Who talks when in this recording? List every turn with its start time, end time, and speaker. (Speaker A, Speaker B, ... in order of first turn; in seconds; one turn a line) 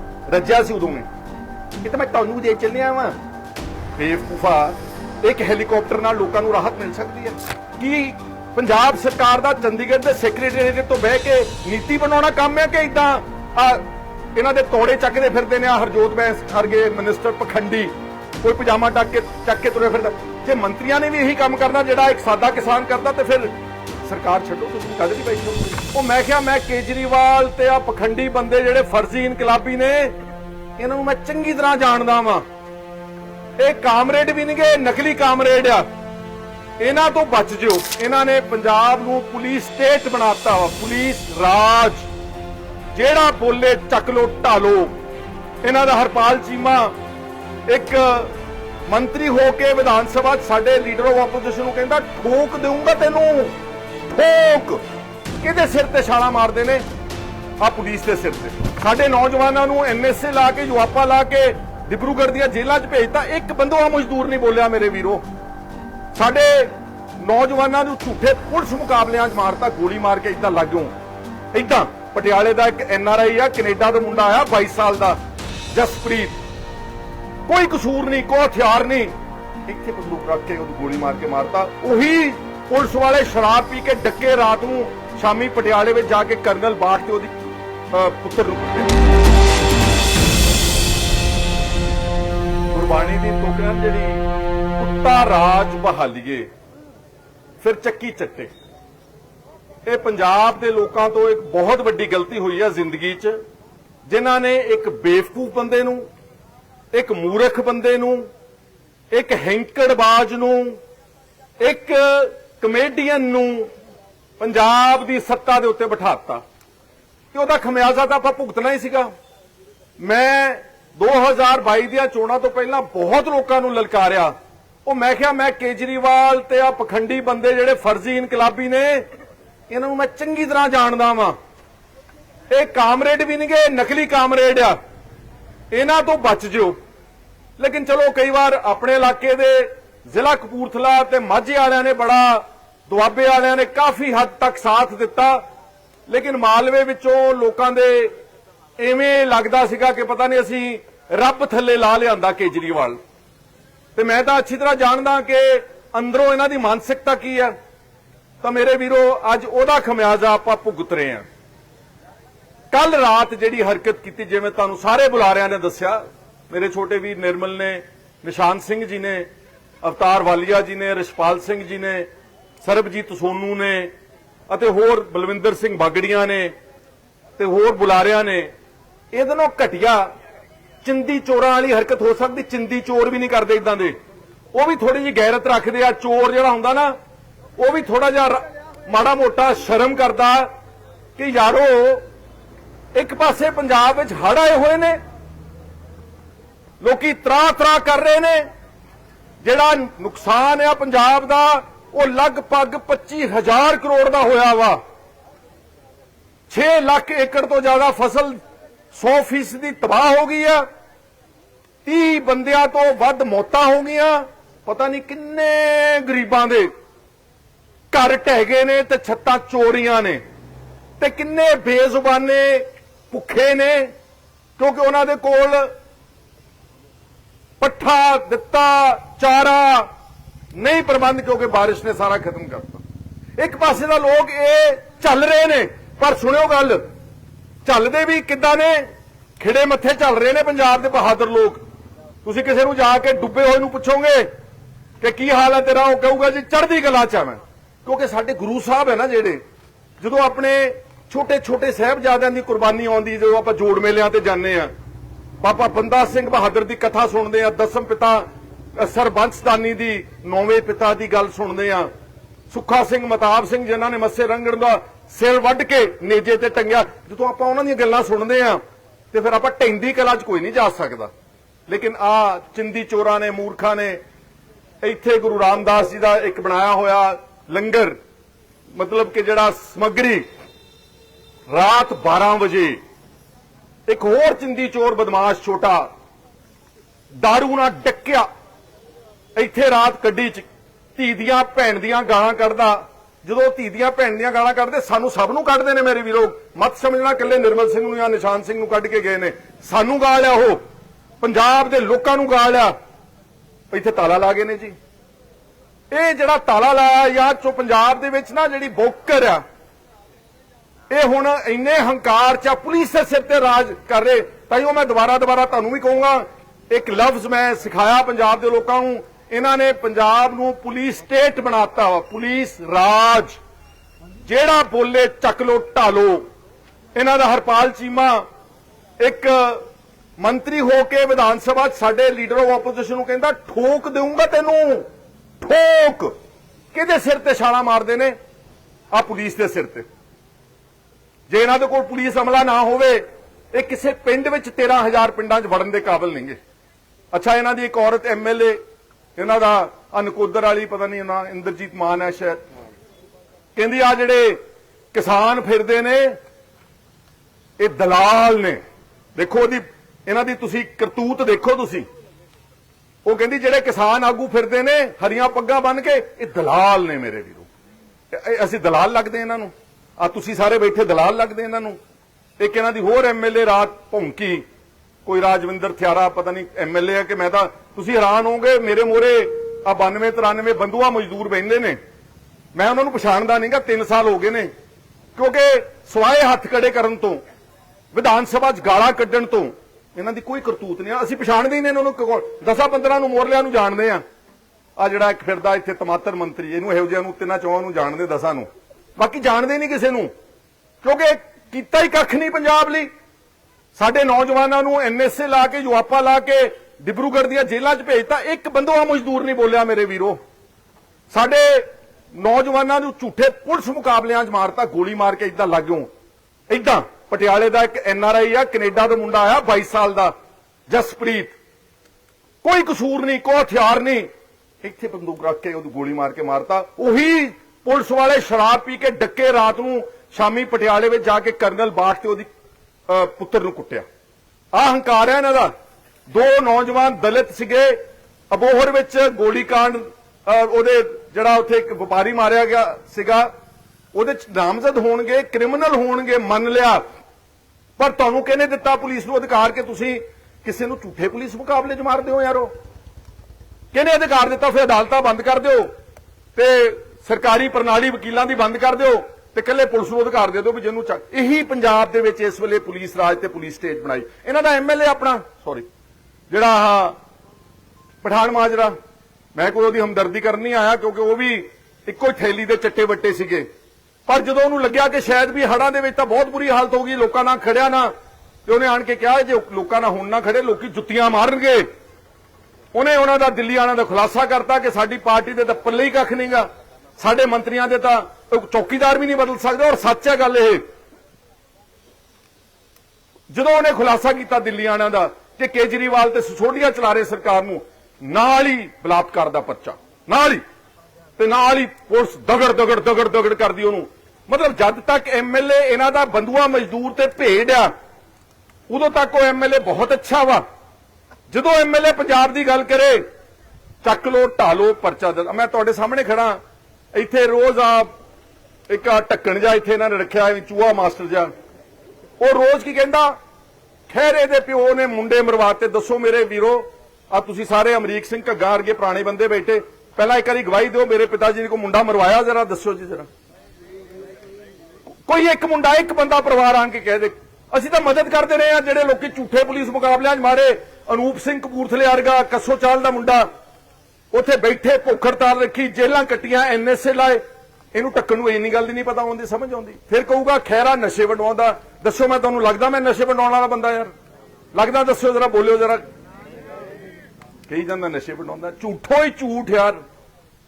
Speaker A: 0.3-1.1
Speaker A: 1.8-3.1
Speaker A: 4.0-30.1
Speaker A: 30.8-32.4
Speaker A: 33.6-35.9
Speaker A: 36.8-42.1
Speaker A: 42.9-44.9
Speaker A: 45.6-46.9
Speaker A: 47.7-48.3
Speaker A: 48.9-53.5
Speaker A: 54.1-54.8
Speaker A: 55.4-56.8
Speaker A: 57.6-65.2
Speaker A: 66.1-70.9
Speaker A: 71.5-75.2
Speaker A: 75.7-76.4
Speaker A: 77.5-79.1
Speaker A: 79.7-87.3
Speaker A: 87.9-88.9
Speaker A: 92.7-94.2
Speaker A: 94.8-96.5
Speaker A: 97.6-98.5
Speaker A: 99.8-103.4
Speaker A: 104.1-106.0
Speaker A: 106.9-108.2
Speaker A: 109.1-110.8
Speaker A: 111.6-113.7
Speaker A: 114.4-116.4
Speaker A: 117.3-119.1
Speaker A: 120.0-124.3
Speaker A: 124.8-129.0
Speaker A: 129.7-131.3
Speaker A: 132.5-134.8
Speaker A: 135.7-136.7
Speaker A: 137.6-145.4
Speaker A: 146.1-148.1
Speaker A: 148.8-153.0
Speaker A: 153.9-157.5
Speaker A: 158.4-161.2
Speaker A: 162.7-169.3
Speaker A: 169.8-172.1
Speaker A: 172.6-173.9
Speaker A: 174.5-176.5
Speaker A: 177.4-178.5
Speaker A: 179.1-180.1
Speaker A: 180.8-183.9
Speaker A: 184.5-186.9
Speaker A: 187.6-190.5
Speaker A: 191.2-192.0
Speaker A: 192.9-195.0
Speaker A: 196.8-198.4
Speaker A: 199.4-204.8
Speaker A: 206.5-208.4
Speaker A: 208.9-210.6
Speaker A: 211.8-216.7
Speaker A: 217.9-220.2
Speaker A: 221.0-223.9
Speaker A: 224.6-225.7
Speaker A: 227.6-229.9
Speaker A: 230.5-232.8
Speaker A: 233.4-236.8
Speaker A: 237.6-238.8
Speaker A: 239.4-241.6
Speaker A: 242.2-244.3
Speaker A: 245.0-249.4
Speaker A: 250.0-254.7
Speaker A: 255.4-261.9
Speaker A: 262.5-268.6
Speaker A: 269.1-271.1
Speaker A: 271.7-274.0
Speaker A: 274.8-278.0
Speaker A: 278.7-280.2
Speaker A: 281.5-282.8
Speaker A: 283.9-285.9
Speaker A: 287.2-288.2
Speaker A: 289.4-300.6
Speaker A: 301.2-302.7
Speaker A: 303.7-304.7
Speaker A: 305.9-309.4
Speaker A: 310.9-323.4
Speaker A: 324.2-326.2
Speaker A: 326.9-328.2
Speaker A: 329.0-329.6
Speaker A: 330.2-334.9
Speaker A: 335.4-336.1
Speaker A: 336.7-338.1
Speaker A: 338.9-339.9
Speaker A: 341.3-343.0
Speaker A: 343.5-346.4
Speaker A: 347.1-348.6
Speaker A: 349.1-352.4
Speaker A: 353.6-354.4
Speaker A: 354.9-356.1
Speaker A: 357.6-358.6
Speaker A: 359.1-361.9
Speaker A: 363.0-367.4
Speaker A: 368.1-371.8
Speaker A: 372.4-374.4
Speaker A: 375.1-381.8
Speaker A: 382.5-384.5
Speaker A: 385.1-387.2
Speaker A: 387.9-394.0
Speaker A: 394.8-400.1
Speaker A: 400.8-402.9
Speaker A: 403.7-410.2
Speaker A: 411.1-415.9
Speaker A: 416.5-420.1
Speaker A: 420.7-421.3
Speaker A: 422.4-424.1
Speaker A: 424.6-432.3
Speaker A: 432.9-433.8
Speaker A: 434.5-435.5
Speaker A: 436.1-437.8
Speaker A: 438.3-443.3
Speaker A: 443.9-446.8
Speaker A: 447.8-452.5
Speaker A: 453.7-455.7
Speaker A: 456.4-465.7
Speaker A: 466.3-467.0
Speaker A: 468.0-468.7
Speaker A: 469.3-473.4
Speaker A: 474.1-477.9
Speaker A: 478.4-481.6
Speaker A: 482.7-490.6
Speaker A: 493.3-500.4
Speaker A: 501.2-507.7
Speaker A: 508.7-510.4
Speaker A: 511.3-513.0
Speaker A: 513.8-516.4
Speaker A: 516.9-517.9
Speaker A: 518.7-521.3
Speaker A: 522.2-523.1
Speaker A: 523.9-533.1
Speaker A: 535.1-543.3
Speaker A: 544.1-547.2
Speaker A: 547.7-553.9
Speaker A: 554.5-555.8
Speaker A: 557.5-559.8